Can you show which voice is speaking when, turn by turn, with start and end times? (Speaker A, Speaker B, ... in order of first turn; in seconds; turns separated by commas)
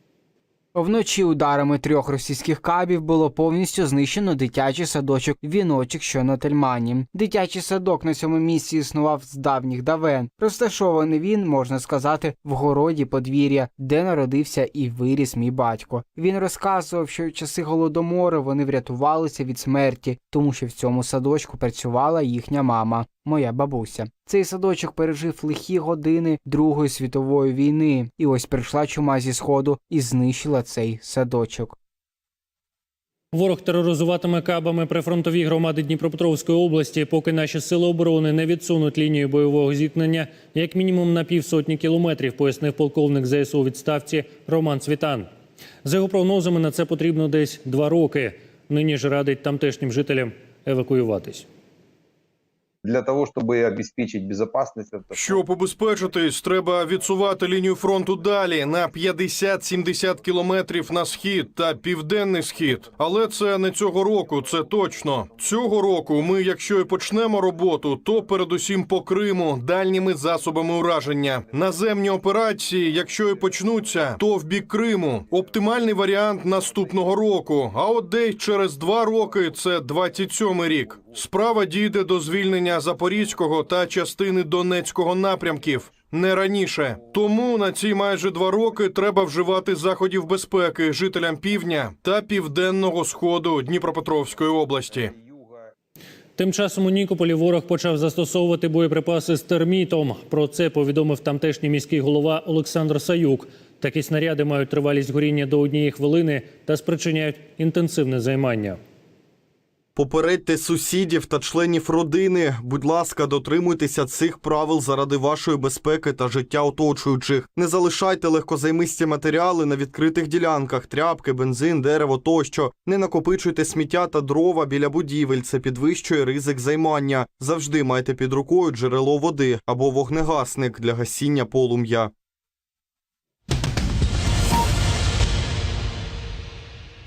Speaker A: 0.8-31.8, Speaker B: 33.3-45.3, Speaker B: 45.8-51.5, Speaker C: 52.8-55.4, Speaker D: 55.5-95.1, Speaker B: 96.4-108.8, Speaker E: 110.0-132.1